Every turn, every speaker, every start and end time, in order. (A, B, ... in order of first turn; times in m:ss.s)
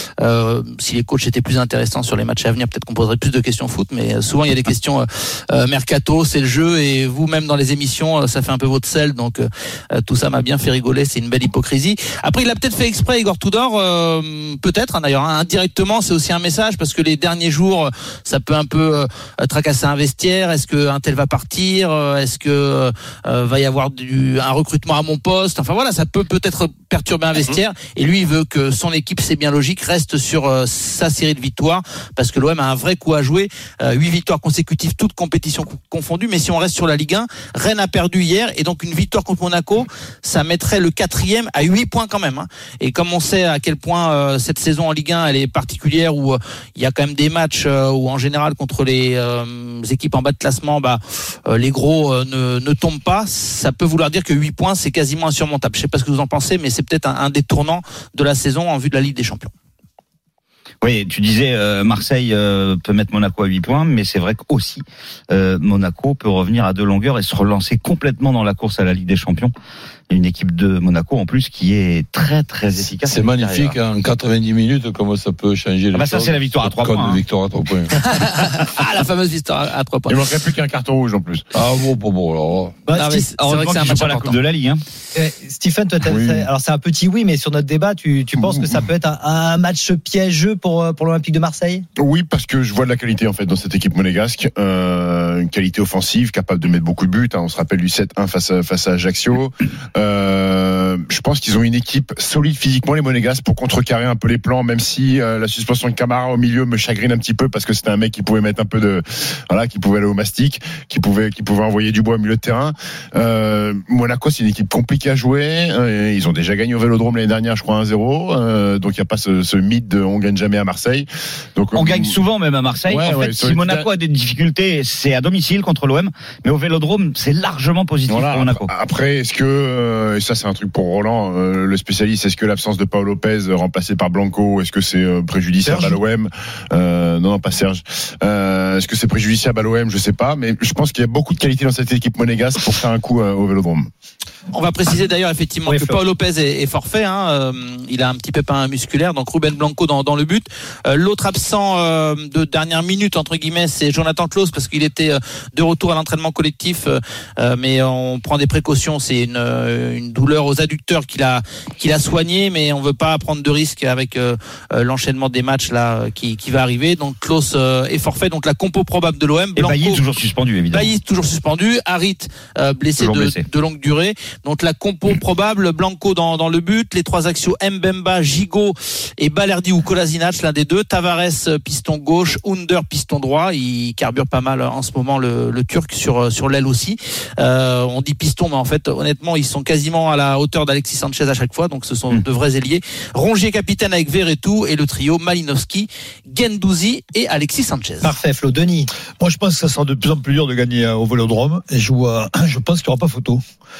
0:00.2-0:59.5 A
1:00.8-1:09.5 B
1:10.1-1:13.8 B
1:13.1-1:17.9 C
1:15.9-1:17.2 B
1:18.0-1:20.3 A
1:20.1-1:21.4 D
1:21.5-1:22.8 C
1:22.9-1:23.3 E
1:22.9-1:24.4 A
1:23.4-1:24.8 B
1:25.1-1:31.8 E
1:26.0-1:26.5 D
1:28.4-1:28.7 D
1:32.0-2:02.2 D
2:01.7-2:08.7 B
2:02.9-2:03.9 D
2:08.1-2:23.9 D
2:15.6-2:16.0 F
2:24.5-2:50.0 A
2:25.6-2:26.0 E
2:49.6-2:50.9 B
2:50.7-3:18.1 A
2:53.0-2:53.4 B
3:18.0-3:18.9 E
3:19.2-3:23.4 F